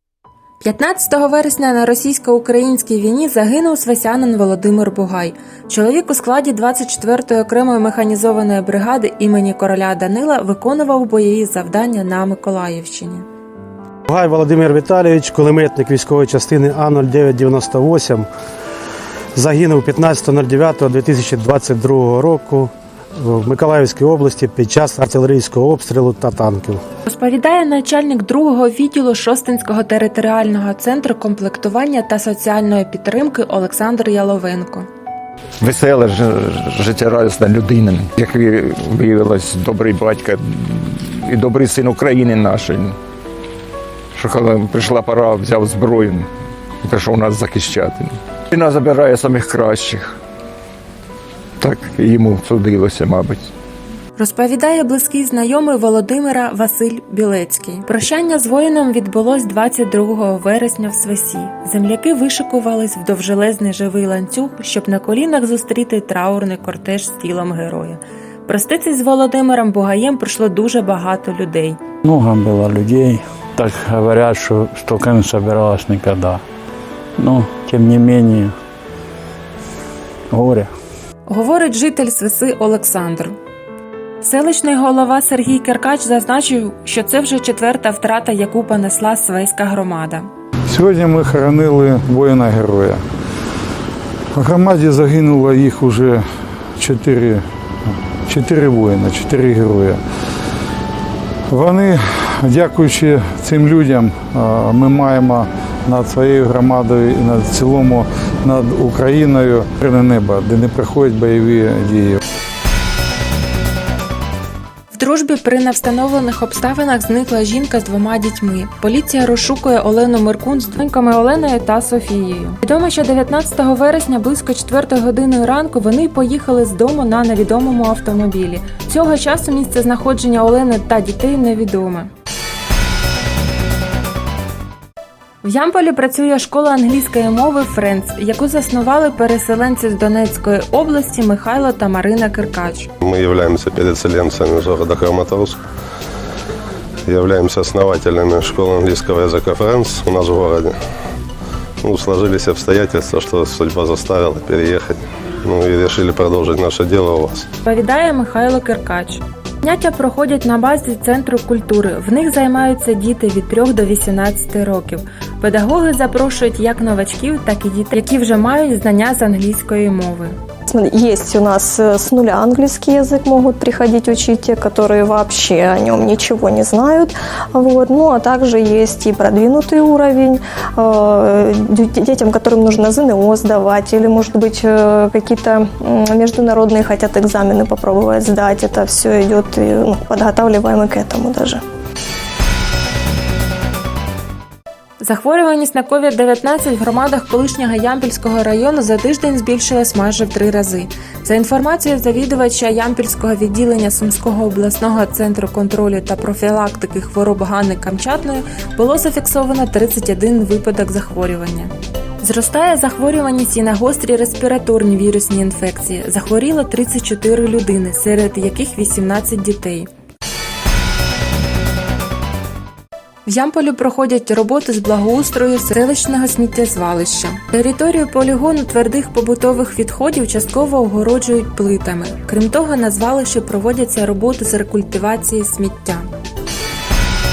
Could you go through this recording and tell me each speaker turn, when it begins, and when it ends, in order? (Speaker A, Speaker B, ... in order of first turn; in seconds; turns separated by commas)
Speaker A: 0.6-13.2, Speaker B: 14.1-18.3, Speaker B: 19.4-26.8, Speaker A: 27.0-34.9, Speaker C: 35.6-43.0, Speaker C: 44.1-46.3, Speaker C: 46.8-50.2, Speaker C: 51.6-53.5, Speaker A: 54.2-71.8, Speaker D: 72.0-76.4, Speaker D: 77.2-78.5, Speaker D: 80.3-80.7, Speaker A: 81.2-83.3, Speaker A: 84.2-90.3, Speaker E: 90.7-93.0, Speaker E: 94.3-96.2, Speaker E: 96.8-97.4, Speaker E: 98.3-100.0, Speaker E: 101.5-112.2, Speaker A: 114.9-132.1, Speaker A: 135.4-142.9, Speaker F: 143.0-145.6, Speaker F: 147.1-150.7, Speaker F: 151.8-157.4, Speaker A: 157.7-170.3, Speaker G: 170.7-191.6, Speaker A: 195.0-219.9, Speaker A: 223.2-236.1